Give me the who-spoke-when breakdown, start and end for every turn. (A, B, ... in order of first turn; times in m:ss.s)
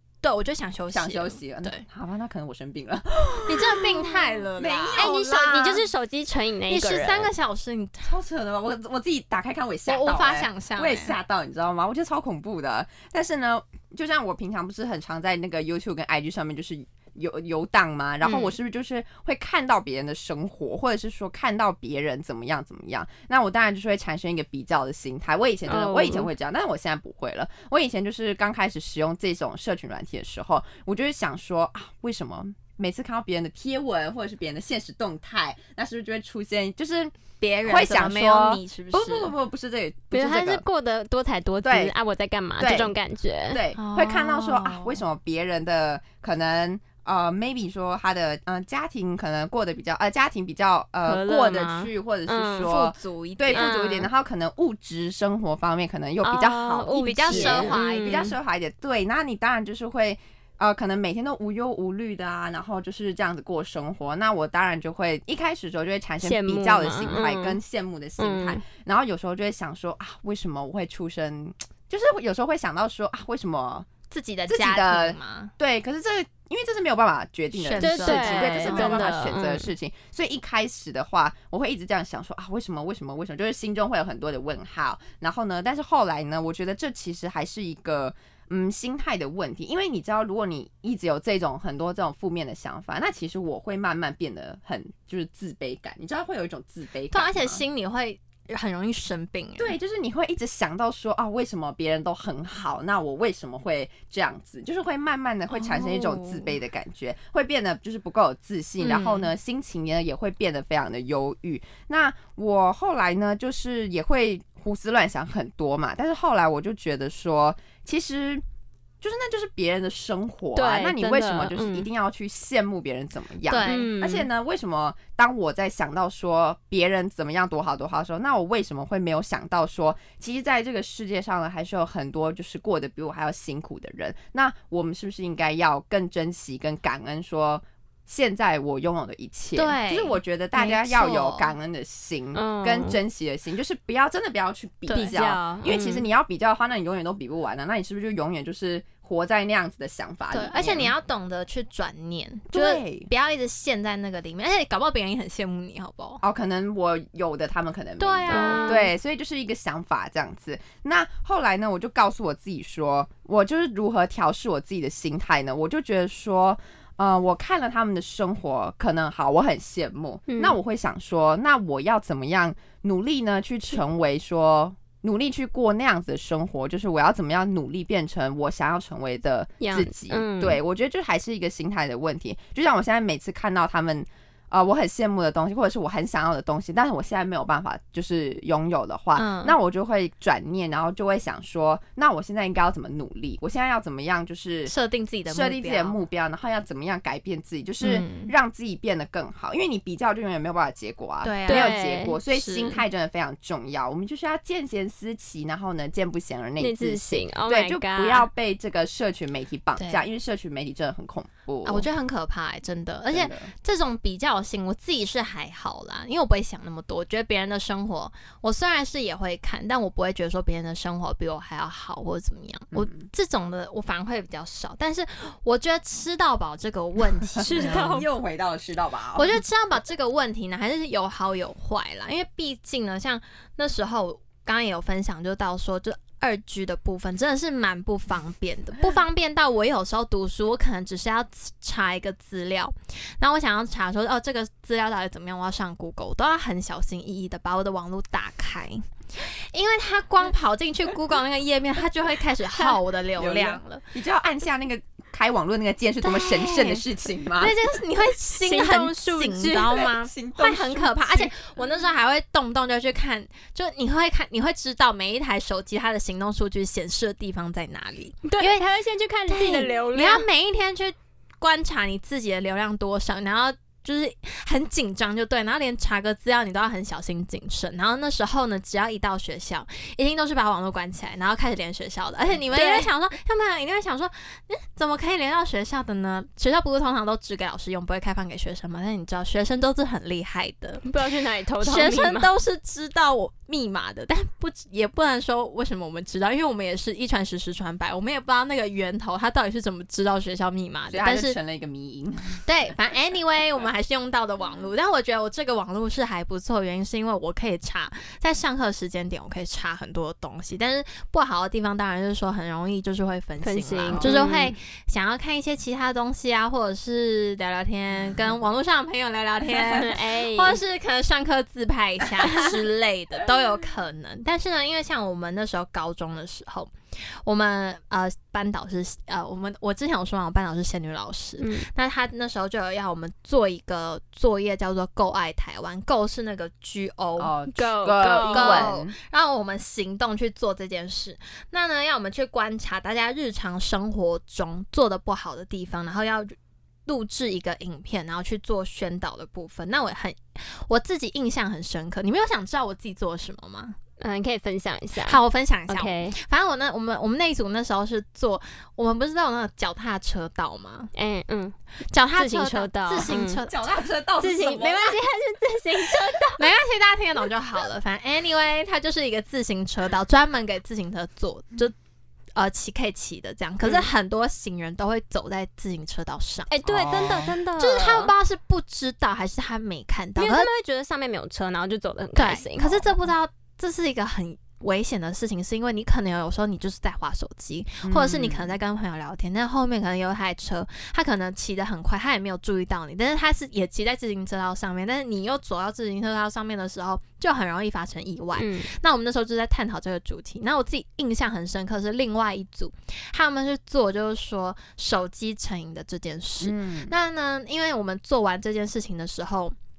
0:00.2-0:01.8 A
0:00.9-0:05.8 B
0:03.5-0:05.7 A
0:05.0-0:07.3 C
0:06.7-0:08.1 A
0:08.0-0:40.6 B
0:09.9-0:11.2 A
0:18.2-0:18.5 A
0:25.7-0:26.3 C
0:37.4-0:39.3 A
0:40.1-0:43.6 C
0:41.6-0:41.9 B
0:42.6-0:43.0 B
0:43.5-1:13.9 B
0:43.8-0:45.0 A
0:51.1-0:52.7 C
0:52.6-0:53.7 A
0:53.5-0:54.1 C
0:56.2-0:58.3 C
0:56.9-0:58.3 A
1:06.2-1:07.6 C
1:08.2-1:08.6 C
1:14.1-1:15.5 A
1:14.5-1:37.6 B
1:17.5-1:19.1 A
1:17.8-1:19.7 C
1:37.1-1:39.8 A
1:39.6-1:58.4 B
1:45.5-1:46.5 A
1:48.8-1:49.3 A
1:59.0-2:30.9 B
2:00.6-2:01.9 C
2:03.5-2:03.9 A
2:03.7-2:04.3 C
2:19.6-2:21.5 A
2:22.3-2:23.0 C
2:24.9-2:25.2 A
2:24.9-2:26.1 C
2:30.3-2:36.2 A
2:32.5-2:33.1 B
2:36.2-3:14.7 B
2:38.0-2:38.9 A
2:38.3-2:38.9 C
2:50.3-2:50.6 C
2:59.6-3:00.6 C
3:09.2-3:09.6 A
3:14.7-3:16.0 A
3:15.3-3:31.9 B
3:17.8-3:18.3 A
3:21.2-3:22.8 A
3:21.5-3:22.2 C
3:26.6-3:28.3 C
3:29.8-3:30.0 A
3:31.6-3:48.0 A
3:33.1-3:33.5 B
3:42.7-3:43.0 B
3:47.4-3:48.1 C
3:47.5-3:49.4 B
3:49.2-4:13.8 A
4:13.2-4:17.5 B
4:16.0-4:16.8 A
4:17.4-4:28.6 A
4:18.4-4:19.9 C
4:19.7-4:21.4 B
4:28.2-4:30.3 C
4:29.3-4:50.9 A
4:42.5-4:42.9 C
4:50.8-4:52.3 C
4:51.6-5:01.4 A
5:00.9-5:02.4 B
5:02.5-5:26.7 A
5:13.4-5:14.6 C
5:13.9-5:14.2 B
5:19.7-5:20.6 C
5:27.2-5:37.4 A
5:31.4-5:31.7 C
5:37.2-5:38.9 B
5:37.6-5:38.7 C
5:38.2-5:46.4 A
5:46.9-5:53.8 A
5:54.0-5:56.2 C
5:55.0-6:00.9 A
6:01.0-6:01.6 C
6:01.9-6:03.6 A
6:02.2-6:03.4 C
6:03.5-6:05.0 B
6:04.2-6:06.5 C
6:06.4-6:11.7 A
6:12.4-6:16.5 A
6:16.5-6:18.1 C
6:16.6-6:17.4 B
6:17.6-6:20.5 A
6:20.2-6:22.9 C
6:22.2-6:49.6 A
6:27.8-6:28.6 B
6:38.4-6:38.7 C
6:46.4-6:47.0 B